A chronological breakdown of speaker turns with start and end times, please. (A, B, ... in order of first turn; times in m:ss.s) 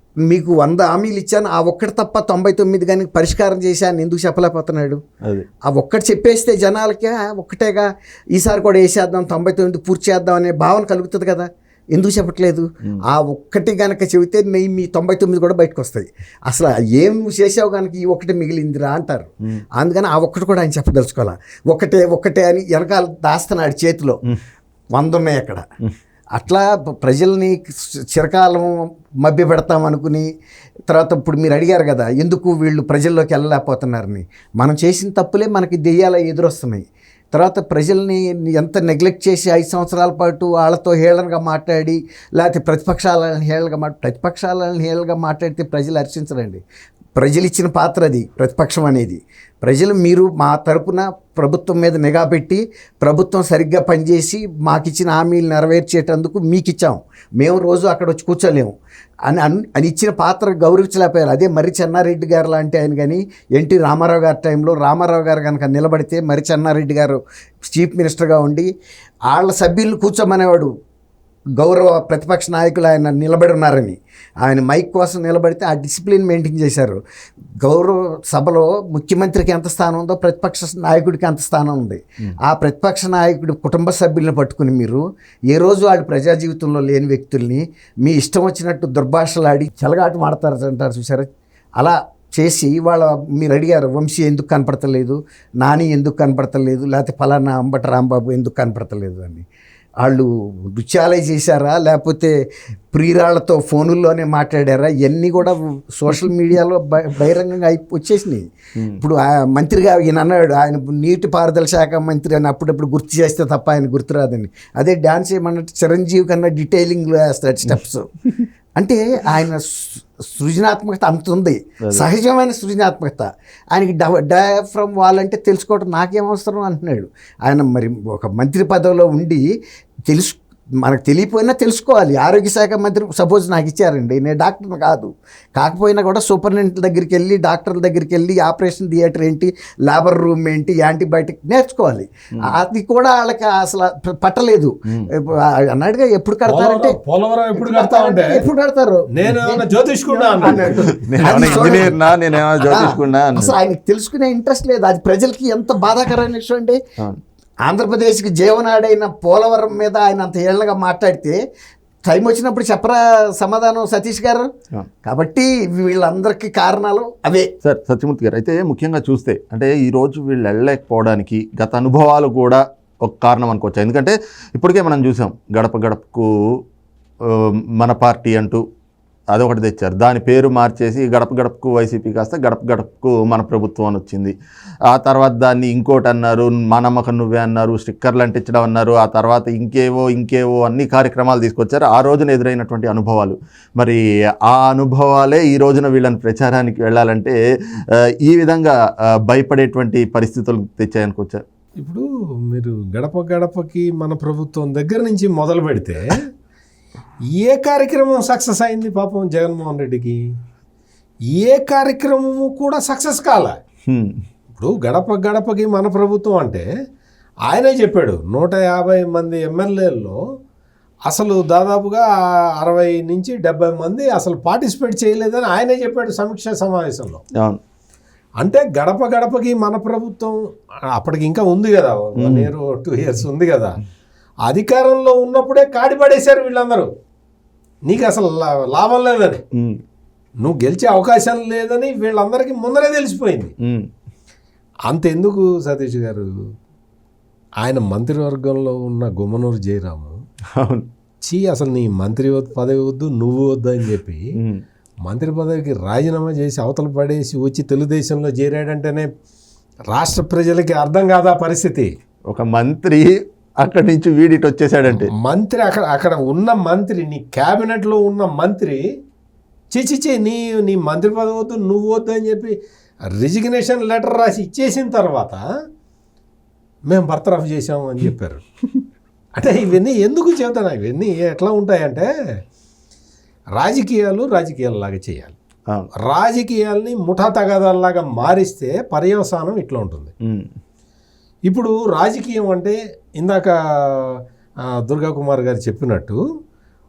0:00.3-0:05.0 A
0:05.7-0:24.2 A
0:24.9-0:25.6 A
0:26.3-0:30.3 A
0:30.9-0:46.6 A
0:47.2-0:58.7 A
0:59.3-1:08.7 A
1:09.3-1:10.7 A
1:11.6-1:17.0 A
1:17.6-1:39.5 A
1:40.0-1:42.3 A
1:42.9-1:58.1 A
1:58.8-2:09.5 A
2:10.1-2:27.0 A
2:24.9-2:25.1 B
2:26.5-2:28.5 C
2:27.6-2:32.0 A
2:29.1-2:31.9 C
2:30.7-2:33.5 B
2:32.6-2:36.8 A
2:37.6-2:41.4 A
2:42.1-2:44.5 A
2:45.0-2:47.5 A
2:47.6-2:56.6 B
2:57.2-2:58.6 B
2:59.3-3:04.3 B
3:04.9-3:17.4 B
3:18.0-3:21.4 B
3:21.8-3:26.3 C
3:27.4-3:30.2 C
3:31.3-3:33.6 C
3:33.9-3:34.2 B
3:34.5-3:36.7 C
3:37.5-3:40.2 C
3:41.1-3:47.2 C
3:47.4-3:47.6 B
3:48.4-3:50.4 C
3:50.9-3:53.8 C
3:52.2-3:52.5 B
3:54.5-3:56.9 C
3:57.9-3:59.4 C
3:59.5-3:59.8 B
4:00.4-4:03.5 C
4:03.6-4:03.9 B
4:04.9-4:06.3 C
4:07.6-4:10.2 C
4:10.6-4:10.9 B
4:11.2-4:14.3 C
4:14.4-4:14.6 B
4:15.0-4:19.1 C
4:19.9-4:21.9 C
4:22.3-4:25.1 B
4:25.1-4:28.8 C
4:29.7-4:35.4 C
4:36.9-4:38.4 C
4:39.4-4:42.1 C
4:43.6-4:45.4 C
4:46.0-4:50.1 C
4:50.2-4:50.5 B
4:51.5-4:56.2 C